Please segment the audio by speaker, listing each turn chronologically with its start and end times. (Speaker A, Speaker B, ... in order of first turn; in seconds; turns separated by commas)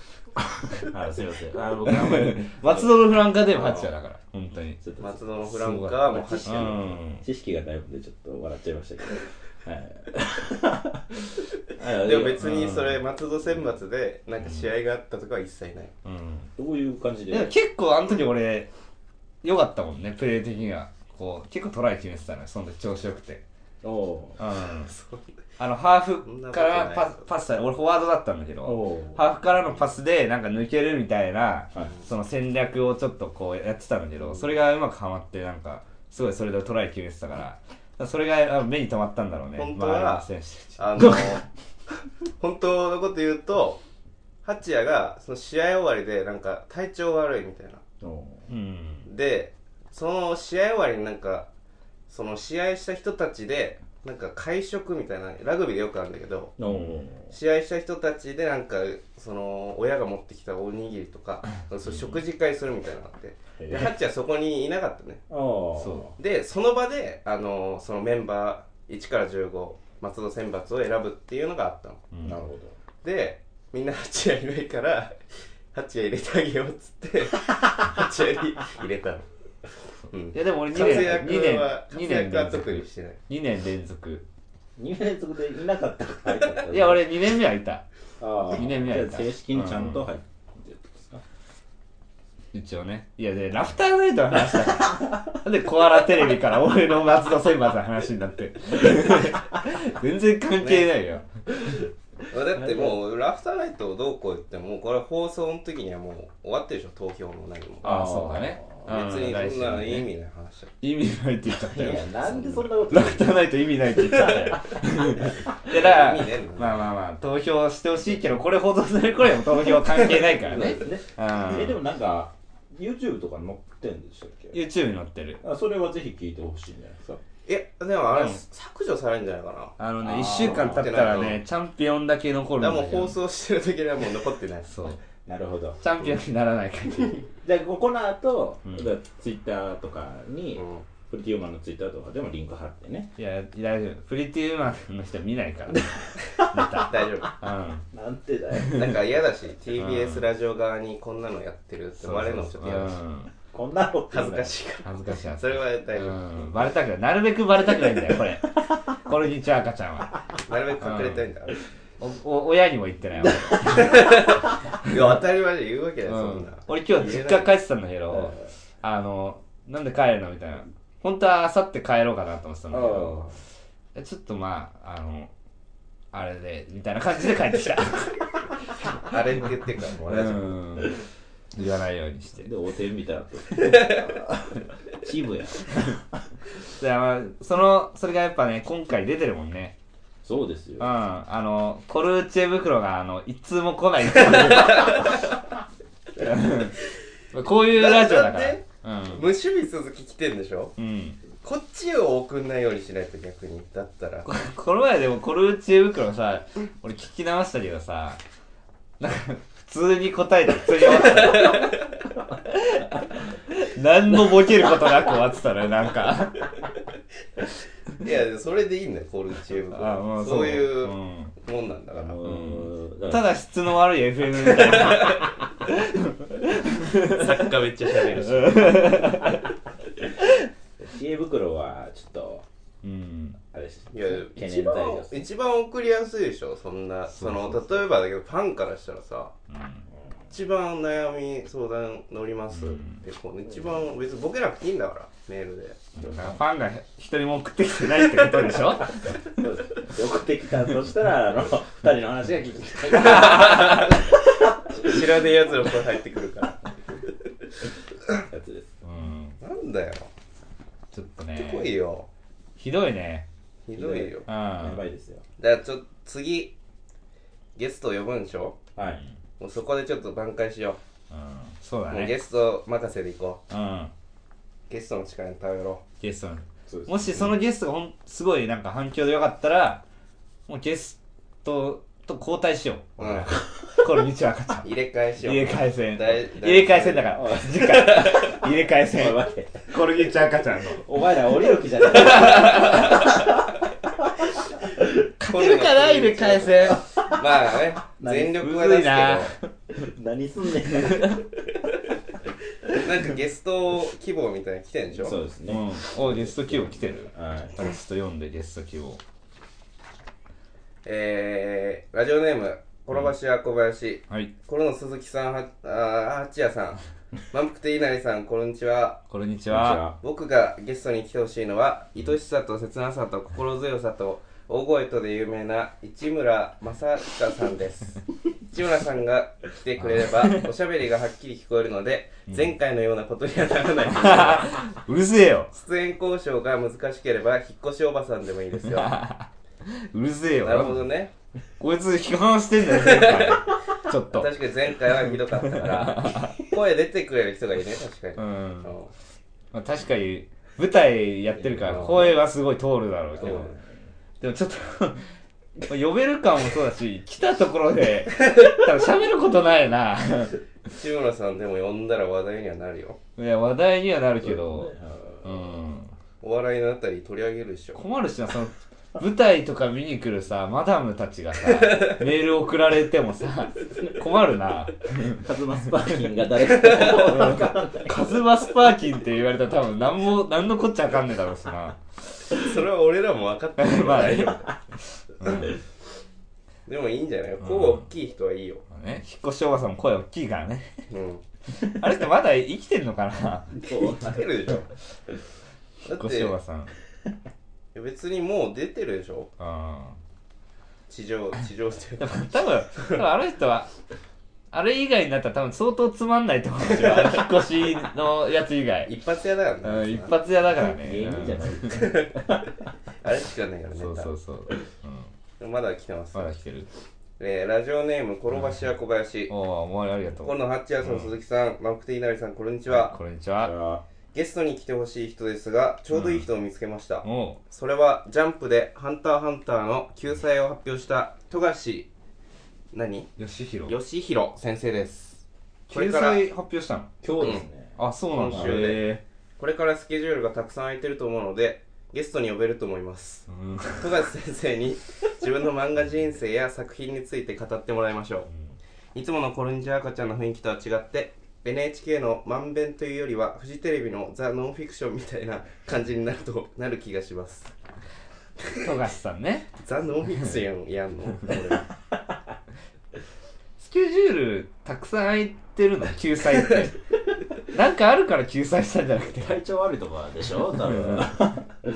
Speaker A: 0.8-2.9, Speaker B: 1.9-4.8, Speaker C: 3.6-3.9, Speaker A: 4.8-12.6, Speaker C: 5.0-7.0, Speaker B: 5.5-7.2, Speaker C: 11.9-15.9, Speaker B: 12.4-13.0, Speaker B: 16.1-16.5, Speaker A: 16.6-17.5, Speaker B: 17.3-18.7, Speaker B: 19.4-23.4, Speaker A: 23.8-24.4, Speaker B: 24.4-24.9, Speaker C: 24.8-25.3, Speaker B: 25.6-41.2, Speaker C: 26.2-27.3, Speaker A: 28.6-29.2, Speaker C: 39.6-41.5, Speaker C: 42.4-43.8, Speaker C: 44.4-47.8, Speaker A: 48.0-48.5, Speaker B: 48.5-49.1, Speaker C: 49.1-51.5, Speaker C: 52.1-56.5, Speaker A: 56.6-57.3, Speaker B: 56.7-57.0, Speaker C: 57.3-65.2, Speaker A: 63.6-63.9, Speaker A: 65.3-66.1, Speaker B: 65.8-66.1, Speaker C: 66.2-72.0, Speaker B: 72.1-72.4, Speaker A: 72.2-72.8, Speaker C: 73.0-75.2, Speaker C: 75.7-79.2, Speaker C: 80.1-83.2, Speaker B: 80.3-84.2, Speaker A: 84.8-87.1, Speaker B: 86.7-87.8, Speaker A: 88.2-91.2, Speaker B: 88.5-90.1, Speaker B: 92.5-101.3, Speaker C: 100.6-100.9, Speaker C: 102.3-108.1, Speaker A: 102.6-103.0, Speaker A: 107.8-108.9, Speaker B: 107.8-110.1, Speaker C: 108.8-110.7, Speaker B: 110.8-121.8, Speaker A: 111.7-113.4, Speaker C: 115.5-116.9, Speaker C: 119.9-120.8, Speaker A: 120.5-124.6, Speaker B: 124.5-125.4, Speaker A: 125.4-127.2, Speaker C: 127.5-131.4, Speaker B: 129.8-133.2, Speaker A: 130.0-130.9, Speaker C: 132.6-134.7, Speaker B: 134.7-135.0, Speaker A: 135.2-135.8, Speaker B: 135.8-137.2, Speaker A: 137.4-143.1, Speaker B: 138.7-138.9, Speaker C: 140.6-140.8, Speaker B: 143.2-147.8, Speaker C: 146.8-147.3, Speaker A: 147.9-149.0, Speaker B: 148.6-149.0, Speaker C: 148.7-153.0, Speaker B: 149.8-150.2, Speaker B: 152.0-153.3, Speaker A: 153.5-154.6, Speaker C: 154.1-156.7, Speaker B: 154.8-160.2, Speaker C: 160.5-161.6, Speaker B: 160.8-161.2, Speaker B: 162.0-164.3, Speaker C: 163.7-167.5, Speaker B: 166.1-173.4, Speaker A: 168.1-168.5, Speaker A: 172.7-173.3, Speaker B: 173.9-175.3, Speaker B: 176.1-178.2, Speaker C: 179.0-180.6, Speaker B: 180.1-181.0, Speaker B: 181.6-182.5, Speaker A: 182.4-186.2, Speaker C: 183.6-184.1, Speaker B: 186.8-189.8, Speaker A: 190.2-190.9, Speaker B: 190.8-195.1, Speaker C: 194.4-195.1, Speaker B: 196.2-196.8, Speaker B: 197.3-199.3, Speaker C: 197.6-200.8, Speaker B: 200.8-201.2, Speaker C: 201.4-204.3, Speaker B: 204.2-208.2, Speaker B: 209.0-211.8, Speaker C: 211.3-211.7, Speaker B: 212.5-216.5, Speaker C: 218.0-222.2, Speaker B: 219.7-221.3, Speaker A: 221.9-223.3, Speaker B: 222.2-227.3, Speaker C: 224.6-225.2, Speaker C: 226.9-229.3, Speaker B: 228.2-229.4, Speaker A: 230.8-232.4, Speaker B: 232.8-233.4, Speaker A: 233.4-235.2, Speaker C: 233.9-239.3, Speaker B: 237.1-237.8, Speaker B: 239.5-239.8, Speaker C: 240.3-245.8, Speaker B: 242.5-243.0, Speaker B: 246.0-249.2, Speaker A: 246.0-246.4, Speaker A: 249.0-254.0, Speaker B: 253.0-253.9, Speaker C: 253.1-254.0, Speaker C: 254.7-256.6, Speaker A: 254.7-255.0, Speaker A: 258.2-258.8, Speaker B: 258.8-259.4, Speaker C: 259.4-260.1, Speaker B: 260.9-261.7, Speaker C: 261.4-262.1, Speaker B: 262.6-263.3, Speaker C: 263.7-264.3, Speaker A: 263.8-265.2, Speaker B: 264.3-264.8, Speaker C: 265.4-266.5, Speaker C: 267.6-268.6, Speaker A: 268.8-269.0, Speaker C: 269.4-270.8, Speaker B: 271.1-272.1, Speaker C: 271.9-273.4, Speaker B: 273.5-273.9, Speaker C: 274.7-275.8, Speaker B: 276.0-279.8, Speaker A: 276.7-277.3, Speaker B: 280.5-284.7, Speaker C: 283.0-283.4, Speaker C: 284.6-287.2, Speaker B: 285.2-290.9, Speaker A: 287.2-288.1, Speaker A: 288.9-289.8, Speaker A: 290.8-293.5, Speaker B: 292.1-293.0, Speaker B: 295.2-296.9, Speaker C: 295.3-299.3, Speaker A: 298.0-298.5, Speaker B: 298.4-299.3, Speaker A: 299.4-301.2, Speaker B: 300.7-301.2, Speaker C: 302.7-305.2, Speaker A: 304.9-307.6, Speaker B: 305.5-309.0, Speaker C: 310.9-319.0, Speaker B: 319.1-319.8, Speaker A: 319.5-320.0, Speaker C: 320.0-334.6, Speaker B: 329.8-330.4, Speaker B: 333.9-335.5, Speaker C: 335.5-339.0, Speaker B: 338.7-340.9, Speaker C: 340.4-341.1, Speaker B: 341.6-344.3, Speaker C: 342.7-343.4, Speaker C: 344.1-348.9, Speaker B: 345.5-346.4, Speaker B: 348.2-348.7, Speaker B: 349.5-353.5, Speaker A: 351.4-352.2, Speaker C: 351.6-352.1, Speaker A: 353.2-353.8, Speaker C: 353.2-353.5, Speaker B: 354.2-355.1, Speaker B: 355.6-360.4, Speaker C: 360.7-363.0, Speaker B: 363.2-365.9, Speaker A: 364.2-365.5, Speaker C: 366.2-367.8, Speaker B: 367.8-375.2, Speaker C: 371.6-372.0, Speaker A: 375.1-378.1, Speaker C: 376.7-377.1, Speaker B: 376.8-381.8, Speaker C: 382.3-384.5, Speaker B: 383.6-384.4, Speaker B: 384.9-385.6, Speaker C: 386.7-388.6, Speaker B: 387.4-387.9, Speaker B: 388.7-390.8, Speaker C: 390.9-391.2, Speaker B: 391.6-393.6, Speaker A: 393.6-394.5, Speaker C: 393.6-394.7, Speaker C: 395.9-396.4, Speaker B: 395.9-396.7, Speaker C: 397.8-399.3, Speaker B: 399.4-400.0, Speaker C: 400.9-403.0, Speaker B: 402.0-403.7, Speaker B: 404.5-408.9, Speaker C: 406.8-407.2, Speaker C: 408.9-410.1, Speaker B: 409.6-411.9, Speaker A: 410.6-412.4, Speaker C: 411.7-412.4, Speaker C: 413.0-414.1, Speaker B: 413.8-415.1, Speaker C: 415.4-416.4, Speaker B: 416.1-416.7, Speaker C: 417.2-419.3, Speaker B: 418.3-418.6, Speaker B: 419.3-421.1, Speaker C: 420.2-423.0, Speaker B: 422.7-423.5, Speaker A: 423.4-423.8, Speaker C: 424.1-431.9, Speaker B: 425.9-426.3, Speaker B: 427.0-427.4, Speaker C: 432.7-433.1, Speaker B: 433.2-433.8, Speaker C: 433.7-436.2, Speaker B: 435.7-436.9, Speaker A: 437.0-437.8, Speaker C: 437.2-437.5, Speaker B: 437.8-439.0, Speaker C: 438.1-438.9, Speaker A: 438.3-438.7, Speaker C: 439.4-443.3, Speaker B: 443.3-443.9, Speaker C: 443.8-448.3, Speaker C: 448.9-457.5, Speaker B: 458.6-459.5, Speaker C: 459.6-461.7, Speaker B: 463.6-466.8, Speaker B: 467.4-469.4, Speaker A: 469.1-471.5, Speaker B: 470.6-471.2